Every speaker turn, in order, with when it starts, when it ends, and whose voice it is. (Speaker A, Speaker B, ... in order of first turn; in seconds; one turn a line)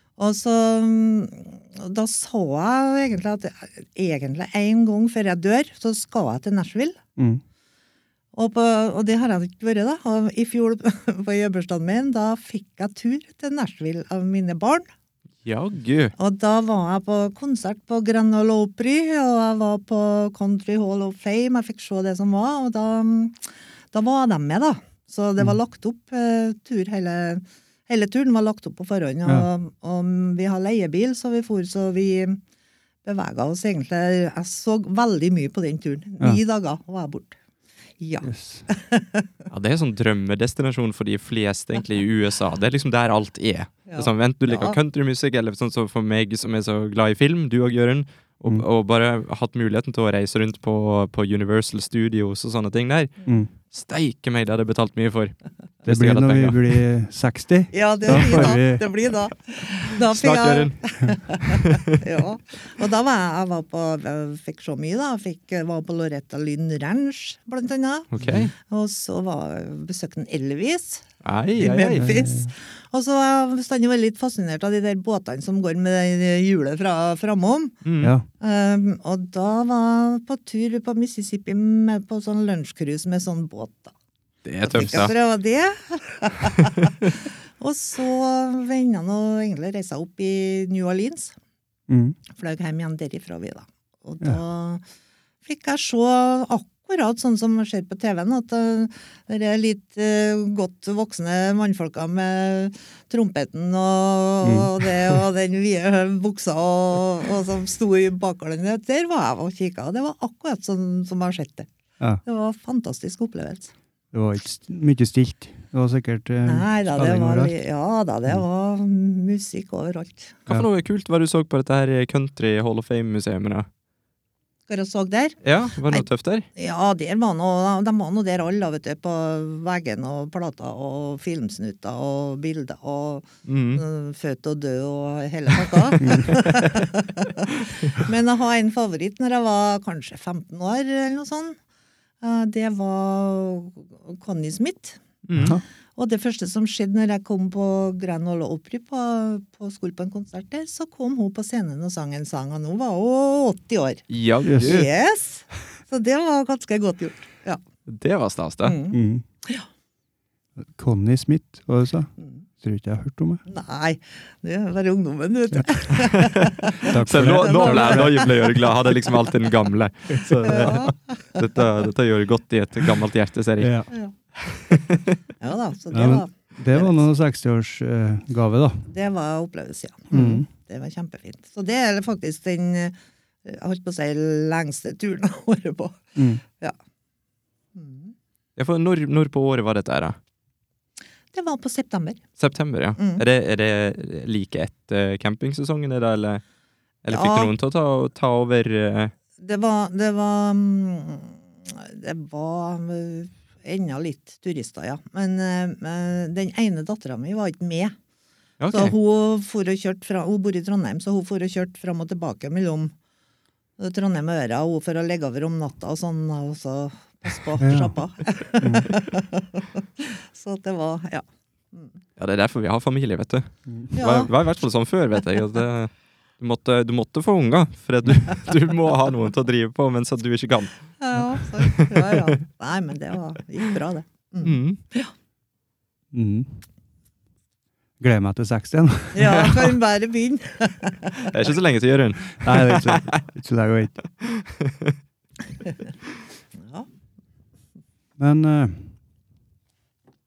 Speaker A: 0.2-7.0
Speaker A: 8.3-14.9
Speaker B: 15.4-16.1
Speaker A: 16.2-23.4
Speaker A: 23.9-32.4
Speaker A: 33.0-37.4
Speaker A: 38.0-39.3
Speaker C: 38.2-38.7
Speaker B: 39.5-53.1
Speaker A: 43.9-44.8
Speaker B: 53.7-56.8
Speaker C: 55.9-58.9
Speaker A: 57.7-71.0
Speaker B: 58.2-58.5
Speaker B: 60.1-62.0
Speaker B: 68.1-68.5
Speaker C: 68.2-68.5
Speaker B: 71.2-72.1
Speaker A: 71.6-77.8
Speaker C: 72.0-72.5
Speaker B: 77.8-78.1
Speaker C: 78.0-78.3
Speaker A: 78.4-83.9
Speaker B: 84.5-85.1
Speaker A: 84.6-91.3
Speaker C: 91.9-92.2
Speaker A: 92.3-94.8
Speaker A: 95.5-111.7
Speaker C: 104.4-104.7
Speaker A: 112.2-113.7
Speaker C: 114.1-117.5
Speaker A: 116.5-120.5
Speaker B: 120.5-123.7
Speaker A: 124.7-126.0
Speaker B: 125.4-126.5
Speaker A: 126.6-141.6
Speaker B: 133.5-133.8
Speaker C: 136.0-136.4
Speaker A: 142.2-145.0
Speaker B: 145.2-145.6
Speaker C: 145.4-145.6
Speaker A: 146.0-154.0
Speaker B: 154.1-154.9
Speaker C: 154.4-154.8
Speaker A: 154.6-157.6
Speaker B: 157.9-158.8
Speaker A: 158.6-159.7
Speaker C: 158.9-159.2
Speaker C: 160.6-163.4
Speaker A: 162.2-162.4
Speaker A: 163.5-168.5
Speaker B: 165.9-173.8
Speaker C: 166.8-168.3
Speaker A: 170.4-171.4
Speaker C: 173.6-173.9
Speaker B: 174.4-175.2
Speaker A: 175.4-177.1
Speaker C: 175.9-178.9
Speaker A: 178.9-186.0
Speaker C: 180.1-180.5
Speaker C: 186.2-186.4
Speaker A: 187.8-188.1
Speaker B: 188.6-190.2
Speaker A: 191.3-192.2
Speaker B: 192.4-196.4
Speaker A: 193.0-193.2
Speaker B: 197.1-199.1
Speaker A: 197.1-197.5
Speaker A: 199.4-207.9
Speaker B: 208.6-208.9
Speaker A: 208.7-212.9
Speaker A: 213.8-222.0
Speaker C: 217.6-217.9
Speaker C: 218.6-218.9
Speaker B: 222.2-230.7
Speaker A: 224.0-224.3
Speaker A: 231.0-235.1
Speaker B: 231.6-232.4
Speaker B: 234.4-234.8
Speaker C: 236.1-236.6
Speaker C: 238.0-239.7
Speaker A: 239.1-241.3
Speaker B: 241.3-243.2
Speaker C: 242.4-243.9
Speaker B: 244.2-244.9
Speaker A: 246.6-246.9
Speaker C: 248.2-248.9